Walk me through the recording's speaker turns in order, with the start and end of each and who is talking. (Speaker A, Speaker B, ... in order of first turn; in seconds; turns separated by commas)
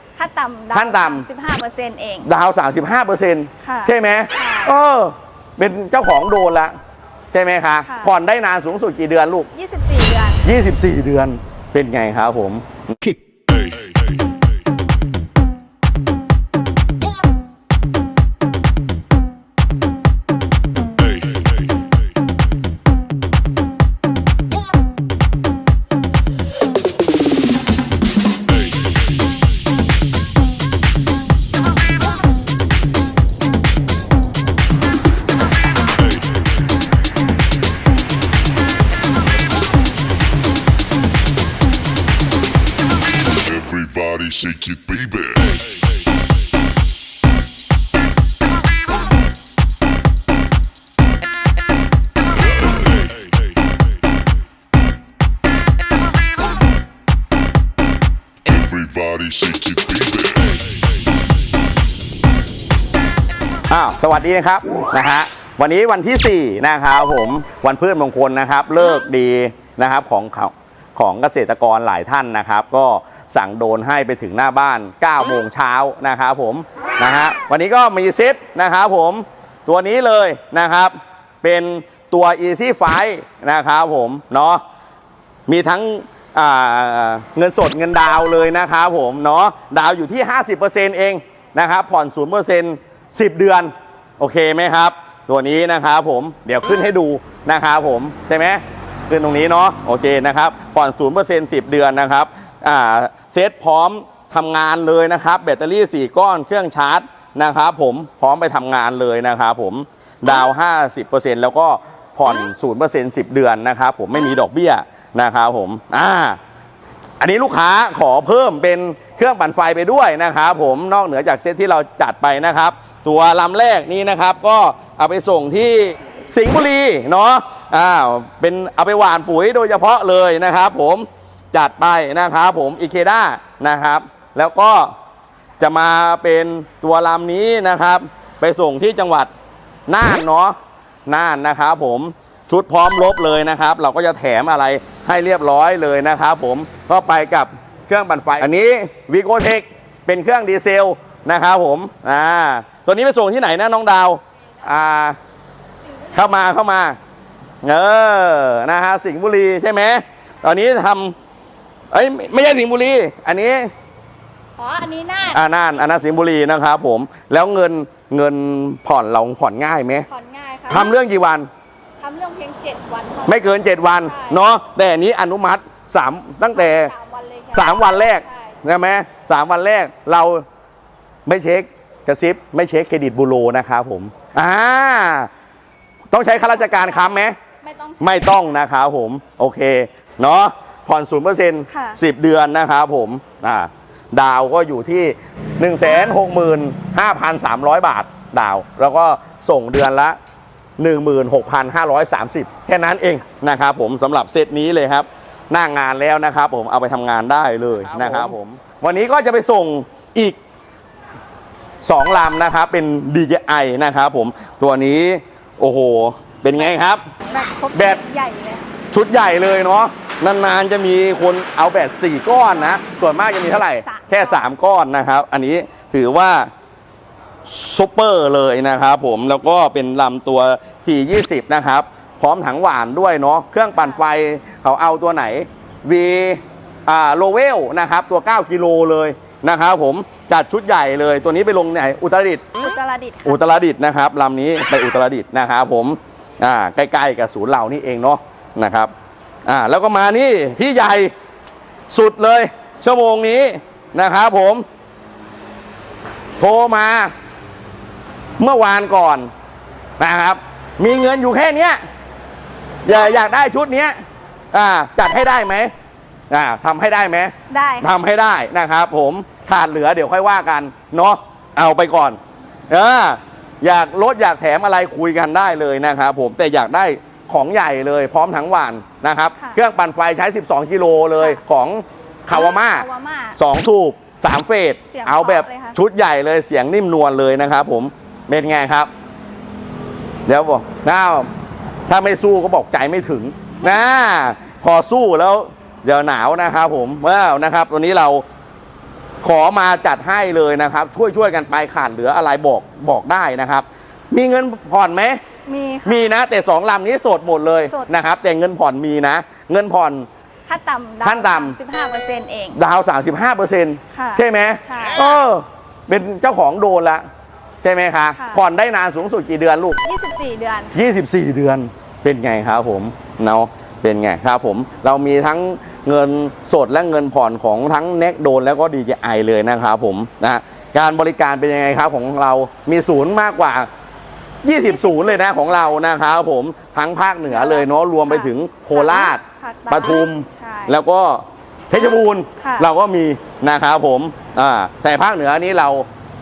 Speaker A: 0.1-2.3, Speaker B: 0.7-1.2, Speaker B: 2.2-6.7, Speaker A: 3.6-4.8, Speaker B: 7.3-9.5, Speaker A: 7.8-8.1, Speaker A: 9.5-10.4, Speaker B: 10.4-13.1, Speaker C: 43.4-45.7, Speaker C: 58.4-60.7, Speaker B: 63.7-84.6, Speaker B: 85.5-116.4, Speaker B: 117.2-134.9, Speaker B: 135.6-139.3, Speaker B: 139.9-140.6, Speaker B: 141.1-155.2, Speaker B: 156.1-157.0, Speaker B: 157.6-161.1, Speaker B: 161.9-163.7, Speaker A: 164.6-165.4, Speaker B: 165.3-170.1, Speaker A: 170.1-170.9, Speaker B: 170.7-171.5, Speaker A: 172.0-174.4, Speaker B: 173.2-176.9, Speaker A: 176.5-178.5, Speaker B: 177.5-180.4, Speaker B: 181.2-185.3, Speaker B: 186.1-187.3, Speaker A: 186.5-188.4, Speaker B: 188.0-200.2, Speaker A: 191.7-192.0, Speaker B: 200.8-210.4, Speaker B: 211.8-217.0, Speaker A: 217.3-218.7, Speaker B: 217.7-218.0, Speaker B: 218.9-226.5, Speaker A: 223.8-224.5, Speaker B: 227.4-242.5, Speaker A: 242.6-243.5, Speaker B: 243.2-248.9, Speaker B: 249.4-251.1, Speaker B: 251.9-254.6, Speaker B: 256.4-257.1, Speaker B: 258.4-259.3, Speaker B: 260.0-261.8, Speaker B: 262.8-263.9, Speaker B: 264.5-265.7, Speaker B: 266.3-272.2, Speaker A: 267.5-267.9, Speaker B: 272.7-288.9, Speaker A: 282.3-283.4, Speaker A: 284.9-285.8, Speaker B: 290.2-291.3, Speaker B: 291.9-298.2, Speaker B: 299.2-305.2, Speaker A: 305.4-306.1, Speaker B: 305.8-310.1, Speaker A: 310.5-312.6, Speaker B: 311.0-311.6, Speaker B: 312.5-317.0, Speaker A: 313.9-315.2, Speaker B: 317.6-319.8, Speaker A: 318.1-318.4, Speaker A: 319.8-320.7, Speaker B: 320.7-333.7, Speaker B: 334.4-345.9, Speaker A: 334.6-335.4, Speaker A: 337.3-340.8, Speaker A: 342.4-342.7